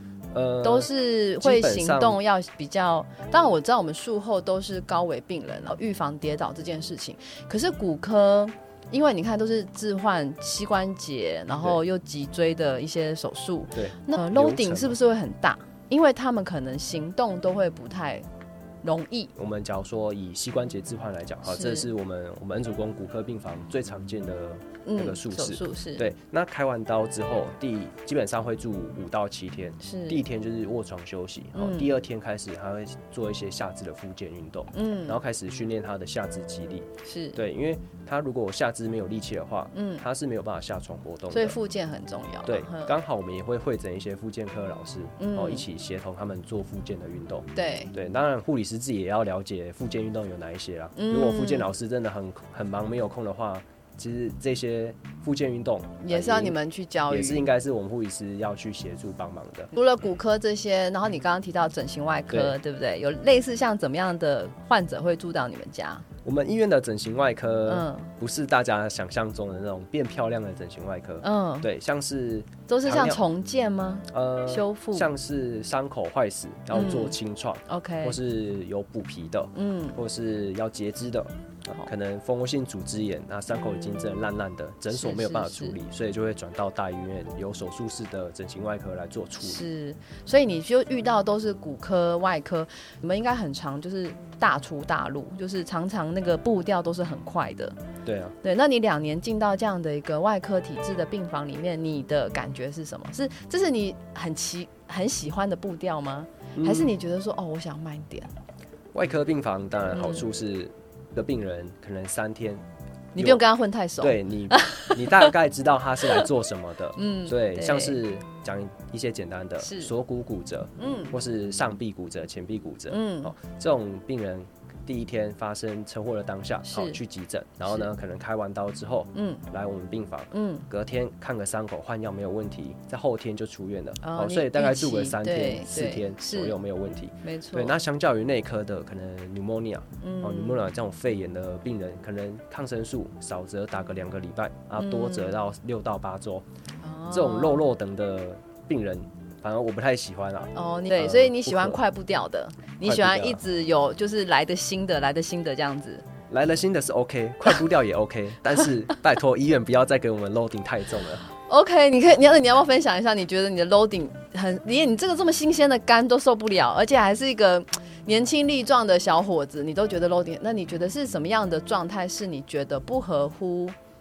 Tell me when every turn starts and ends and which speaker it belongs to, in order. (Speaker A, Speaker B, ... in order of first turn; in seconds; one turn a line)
Speaker A: 0.3-2.2
Speaker B: 0.6-18.2
Speaker A: 11.5-11.8
Speaker A: 13.7-15.0
Speaker B: 18.8-19.3
Speaker A: 19.4-41.6
Speaker B: 21.4-21.9
Speaker B: 24.8-26.1
Speaker B: 29.8-30.2
Speaker B: 31.5-31.9
Speaker B: 34.7-35.2
Speaker B: 37.0-37.4
Speaker B: 39.7-40.0
Speaker B: 41.3-42.9
Speaker A: 42.4-56.6
Speaker B: 45.2-45.6
Speaker B: 47.5-47.9
Speaker B: 51.0-51.7
Speaker B: 56.0-57.5
Speaker A: 57.1-59.7
Speaker B: 59.7-66.0
Speaker A: 62.3-62.5
Speaker A: 66.2-73.2
Speaker B: 67.7-68.1
Speaker B: 71.2-71.7
Speaker B: 72.7-75.1
Speaker A: 74.1-89.7
Speaker B: 76.7-77.2
Speaker B: 77.7-78.2
Speaker B: 79.5-80.0
Speaker B: 83.5-84.2
Speaker B: 84.9-85.8
Speaker B: 89.4-97.8
Speaker A: 98.0-98.3
Speaker B: 98.4-108.3
Speaker A: 106.5-106.9
Speaker A: 108.9-112.6
Speaker B: 109.9-110.2
Speaker B: 113.1-115.3
Speaker A: 113.2-113.4
Speaker A: 114.0-146.4
Speaker B: 117.0-118.0
Speaker B: 119.6-119.9
Speaker B: 120.8-121.1
Speaker B: 122.9-123.3
Speaker B: 126.7-127.0
Speaker B: 129.1-129.4
Speaker B: 130.3-130.7
Speaker B: 134.0-136.6
Speaker B: 137.2-137.8
Speaker B: 140.0-140.7
Speaker B: 144.8-145.3
Speaker B: 146.8-147.7
Speaker A: 147.1-151.8
Speaker B: 150.5-156.0
Speaker A: 152.8-153.4
Speaker A: 156.3-161.2
Speaker B: 161.5-173.7